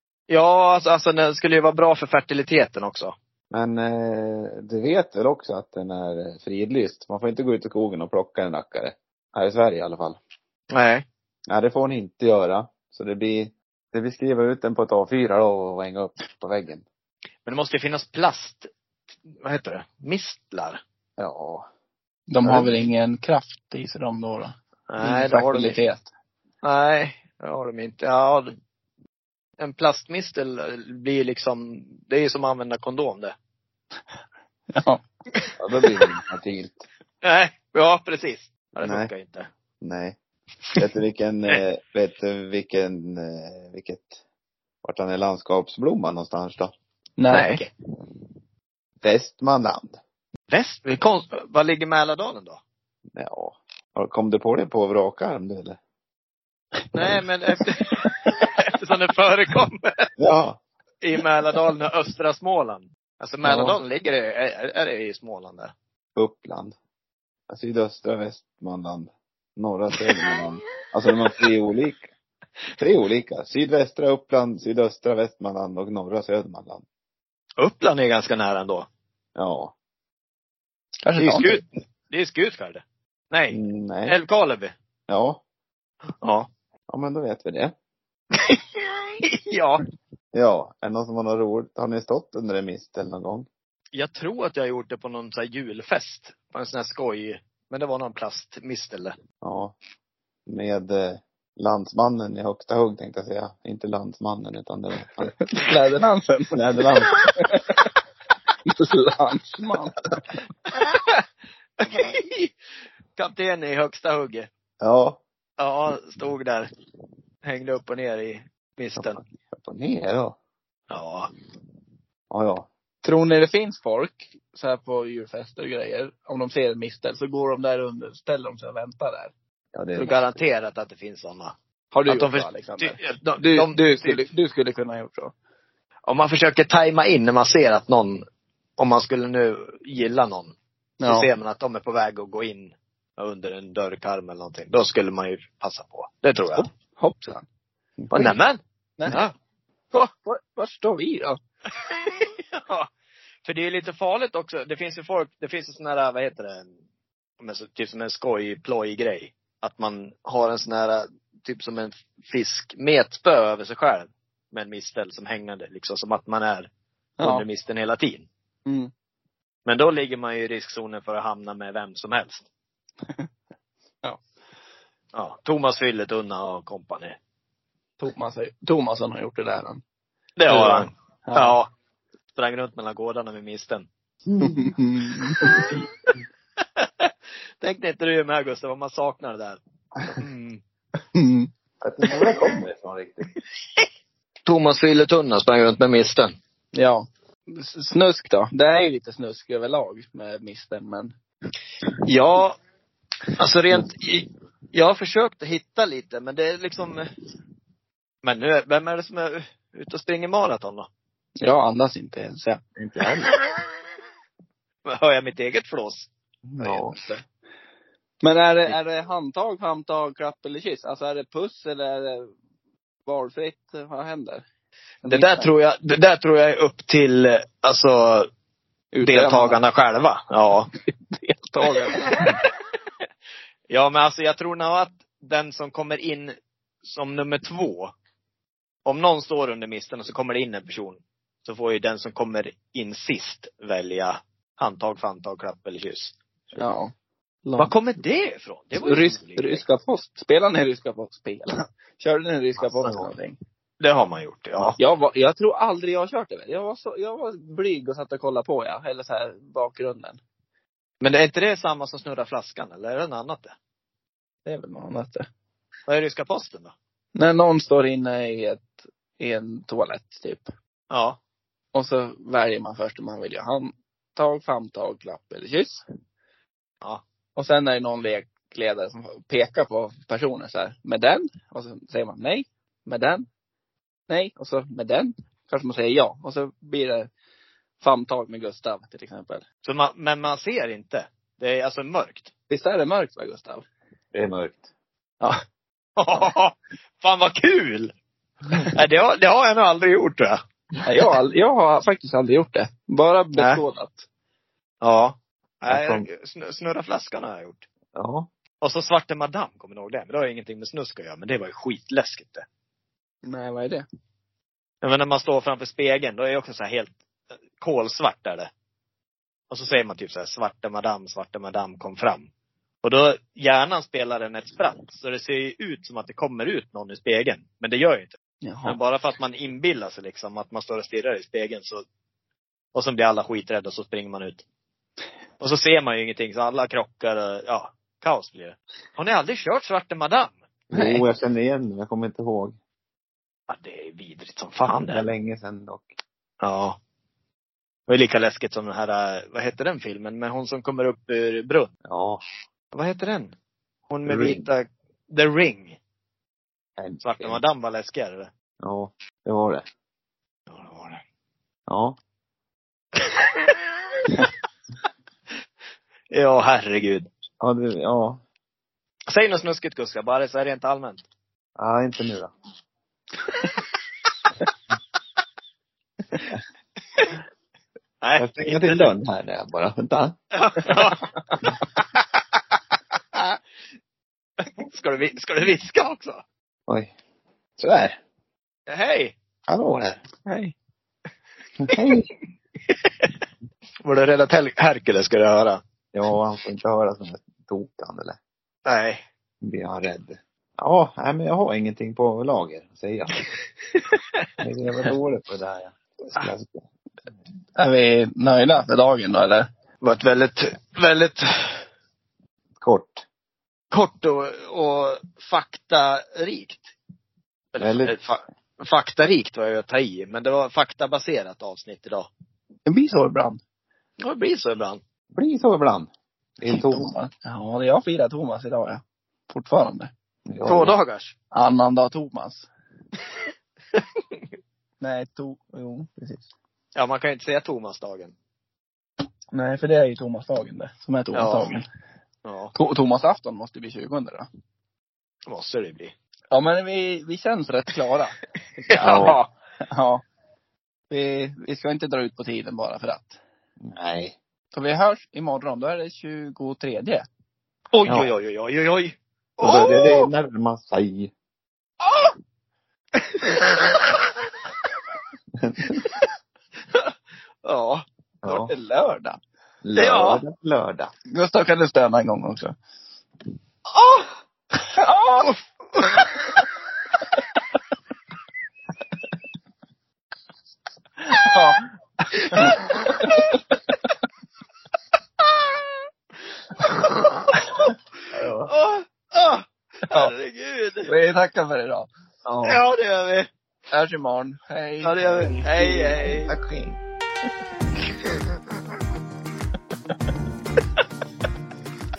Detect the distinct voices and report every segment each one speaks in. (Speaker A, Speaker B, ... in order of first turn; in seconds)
Speaker A: 0.3-3.1, 10.7-11.1, 17.4-18.7, 19.3-20.8, 24.9-25.9, 26.6-28.5, 29.6-33.3, 37.2-39.5, 47.3-47.7, 50.5-52.6, 56.9-60.1, 61.0-65.7, 70.1-70.5, 77.6-78.9, 81.2-84.7, 86.2-86.5, 89.2-89.8, 93.9-99.2, 110.7-111.1, 111.8-112.5, 113.2-114.5, 115.6-116.7, 117.5-119.2, 120.9-121.3, 130.0-131.5, 132.1-134.3, 136.1-138.2, 138.8-146.7, 148.1-149.3, 151.9-152.9, 153.4-156.7, 157.4-166.7, 167.2-168.3, 169.7-172.5, 175.1-177.2, 180.4-181.7, 182.4-183.9, 185.5-185.8, 186.8-190.6, 194.5-196.3, 202.0-202.6, 203.4-207.1, 208.2-210.9, 213.3-213.7, 214.9-216.1, 225.1-228.3, 229.0-230.7, 232.0-232.4, 233.7-237.9, 238.9-246.2, 247.6-249.7, 253.8-254.8, 261.0-263.5, 265.9-266.8, 270.9-271.2, 289.6-292.3, 296.0-297.9, 298.7-300.4, 303.3-303.6, 304.8-307.6, 308.6-312.4, 314.8-317.0, 317.6-318.5, 319.5-322.3, 322.8-331.8, 332.7-334.4, 335.4-340.4, 343.5-345.1, 346.4-346.8, 347.9-351.7, 352.7-353.3, 353.9-355.8, 357.0-358.3, 360.5-361.0, 363.1-363.6, 366.1-367.1, 369.1-371.0, 378.0-378.9, 380.4-381.8, 384.4-386.2, 388.7-389.1, 391.7-392.0, 392.7-393.1, 393.9-395.6, 398.6-399.0, 409.8-411.6, 413.7-416.7, 417.5-422.1, 424.0-424.8, 430.4-431.1, 436.8-438.1, 441.1-441.6, 442.2-442.5, 445.3-445.9, 448.7-449.3, 457.7-460.1, 463.2-463.8, 467.4-467.9, 469.8-470.2, 473.8-474.1, 475.2-476.1, 485.3-485.6, 488.5-490.9, 492.4-493.3, 494.8-496.3
Speaker B: 3.5-10.2, 11.5-16.9, 21.2-21.7, 22.4-22.8, 35.6-36.9, 38.8-39.1, 39.8-40.2, 40.8-44.2, 44.8-46.7, 49.0-50.0, 53.2-55.8, 60.2-60.6, 63.4-63.8, 66.2-66.7, 67.5-72.1, 72.8-76.8, 79.4-79.7, 83.5-84.2, 85.1-85.4, 86.9-87.7, 90.3-93.5, 99.4-99.8, 100.5-105.4, 106.5-107.2, 114.8-115.2, 119.0-120.4, 122.3-122.7, 129.7-130.4, 148.0-148.4, 184.3-184.6, 191.8-193.3, 212.8-213.3, 216.4-217.0, 252.6-253.1, 294.1-294.7, 305.7-306.1, 307.9-308.3, 340.7-342.6, 344.9-345.9, 351.9-352.2, 354.1-354.5, 356.8-357.4, 358.6-359.6, 361.7-362.0, 367.4-368.2, 371.6-372.3, 378.2-380.2, 386.7-386.9, 387.6-388.0, 389.5-390.0, 391.6-392.1, 395.9-398.2, 399.4-403.2, 404.4-406.7, 412.6-413.0, 417.6-418.0, 425.1-426.9, 430.3-430.8, 448.7-449.2, 453.6-454.2, 457.9-458.1, 459.4-461.1, 465.4-465.8, 468.2-468.5, 469.6-470.9, 488.1-488.5, 492.2-492.6, 495.4-496.8
Speaker C: 22.3-26.1, 34.7-35.0, 47.2-47.6, 81.0-81.6, 105.5-107.9, 108.7-110.1, 123.0-129.3, 131.9-135.3, 141.0-141.3, 146.6-147.4, 149.9-151.4, 167.2-167.5, 168.7-168.9, 178.0-179.8, 180.5-181.6, 184.4-185.6, 191.2-191.5, 196.7-201.1, 211.4-212.6, 216.6-217.2, 218.2-222.3, 223.1-224.4, 225.0-225.5, 228.9-229.6, 230.9-232.3, 246.6-246.9, 247.4-247.7, 248.8-253.4, 254.8-260.2, 264.4-265.3, 267.2-270.5, 271.7-275.8, 277.4-283.2, 284.1-287.1, 287.8-289.4, 292.5-293.7, 300.8-304.1, 313.2-313.9, 328.4-328.8, 340.7-341.0, 390.3-390.6, 407.6-409.5, 422.7-423.4, 426.5-429.9, 431.3-432.5, 434.8-436.3, 439.3-441.7, 442.6-444.3, 446.3-448.1, 449.7-450.0, 450.9-453.2, 454.5-457.1, 468.2-469.2, 471.1-472.6, 474.6-475.3, 481.0-481.6, 482.3-483.4, 490.9-491.9, 493.7-495.3